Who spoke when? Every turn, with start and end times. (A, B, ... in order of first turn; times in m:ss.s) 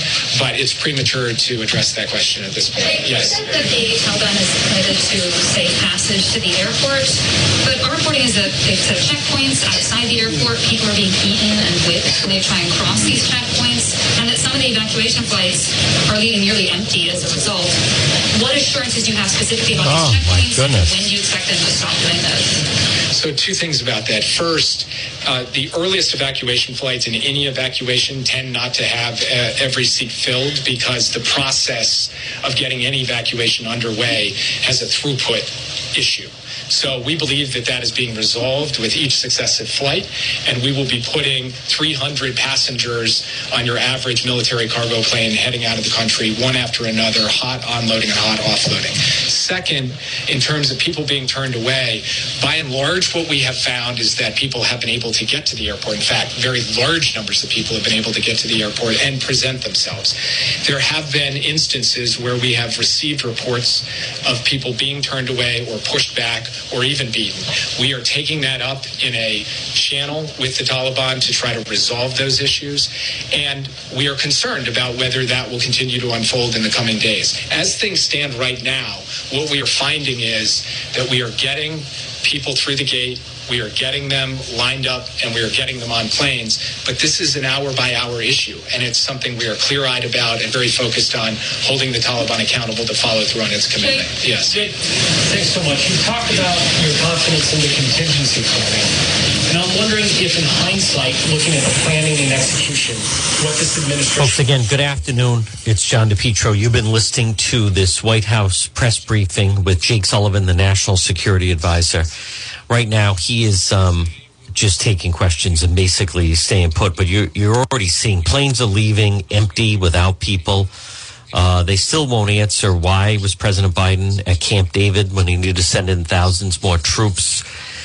0:00.3-0:03.5 A
0:02.9-0:17.8 B
0:18.3-0:22.6 B
0:19.8-0:21.0 C
0:23.1-1:34.6 A
1:33.8-1:34.1 B
1:34.5-1:38.9 D
1:39.5-1:44.4 D
1:44.2-1:52.1 C
1:52.7-2:00.7 C
2:01.3-2:07.5 C